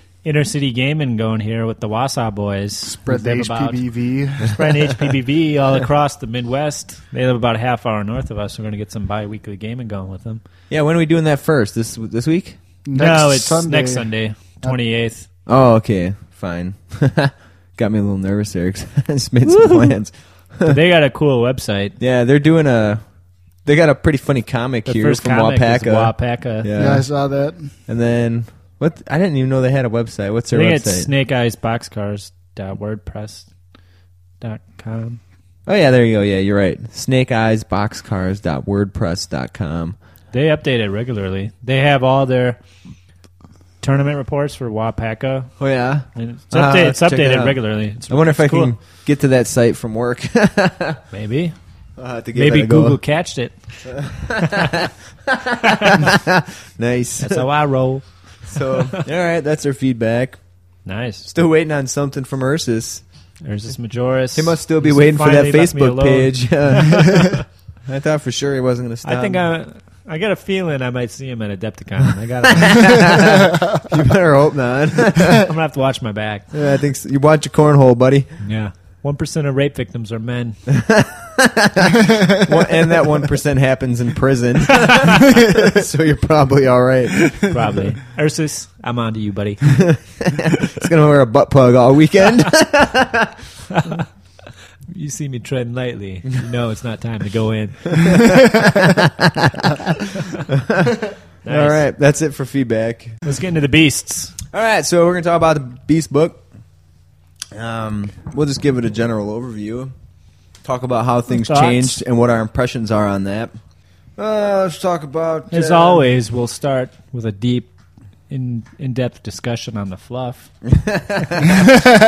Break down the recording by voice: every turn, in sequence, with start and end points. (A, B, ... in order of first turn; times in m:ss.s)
0:00.2-0:03.8 A
0:02.8-0:04.6 B
0:04.5-0:10.4 A
0:10.7-0:12.6 C
0:12.8-0:14.1 B
0:13.0-0:15.3 A
0:15.5-0:20.8 C
0:19.5-0:19.9 A
0:20.6-0:22.0 A
0:22.0-0:23.0 C
0:23.6-0:27.1 C
0:24.8-0:26.7 A
0:26.8-0:27.7 B
0:27.9-0:31.1 C
0:30.5-0:33.5 A
0:34.4-0:35.2 A
0:35.7-0:40.0 C
0:40.3-0:42.6 A
0:43.8-0:45.5 A
0:45.6-0:51.0 C
0:46.2-0:48.7 A
0:51.1-0:51.6 A
0:52.0-0:53.0 C
0:52.3-0:53.6 A
0:53.8-0:57.5 C
0:54.4-0:54.8 A
0:55.6-0:56.0 A
0:57.2-0:59.0 A
0:58.5-1:00.4 C
1:00.9-1:01.3 A
1:01.3-1:03.0 C
1:03.4-1:07.4 A
1:04.4-1:09.4 C
1:09.0-1:13.4 A
1:12.5-1:15.5 C
1:15.3-1:16.5 A
1:16.5-1:18.3 C
1:18.4-1:20.6 A
1:20.7-1:27.4 C
1:27.5-1:29.8 A
1:29.7-1:33.4 C
1:33.7-1:34.1 A
1:34.9-1:38.3 A
1:38.0-1:43.2 C
1:41.4-1:41.8 A
1:43.2-1:44.4 A
1:44.5-1:46.4 C
1:47.5-1:49.9 C
1:50.6-1:53.6 C
1:51.3-1:52.0 A
1:54.2-1:56.0 C
1:55.5-1:57.7 A
1:58.3-2:00.5 A
2:00.6-2:01.6 C